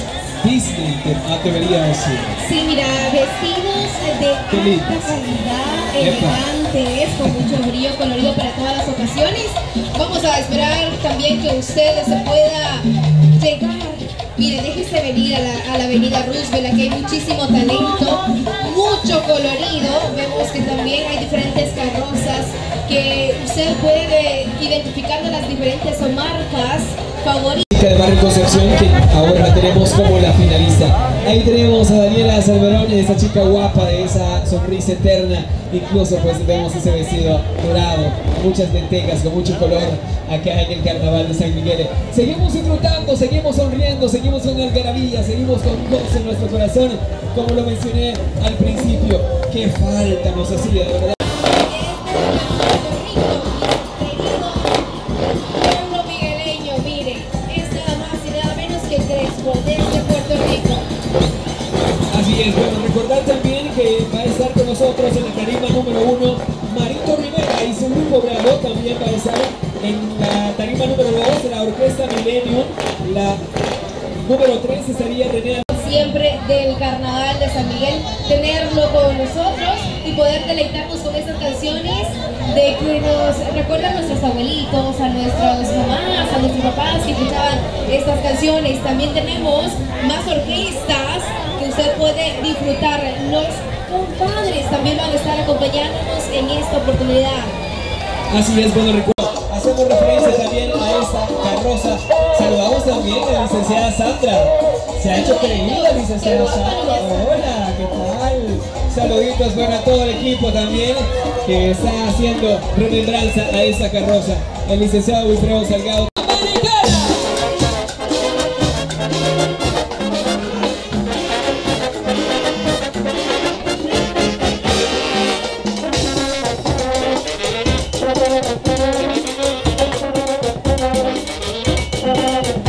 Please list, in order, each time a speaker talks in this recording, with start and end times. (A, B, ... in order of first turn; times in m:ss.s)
0:00.4-0:02.4 A
0:02.4-0:27.7 B
0:04.5-0:05.1 A
0:06.0-0:06.4 A
0:27.7-0:51.2 A
0:51.3-0:54.9 B
0:55.5-1:00.9 B
1:02.1-1:13.4 A
1:14.2-1:15.7 A
1:15.7-1:37.6 B
1:38.3-1:57.3 A
1:45.0-1:47.2 B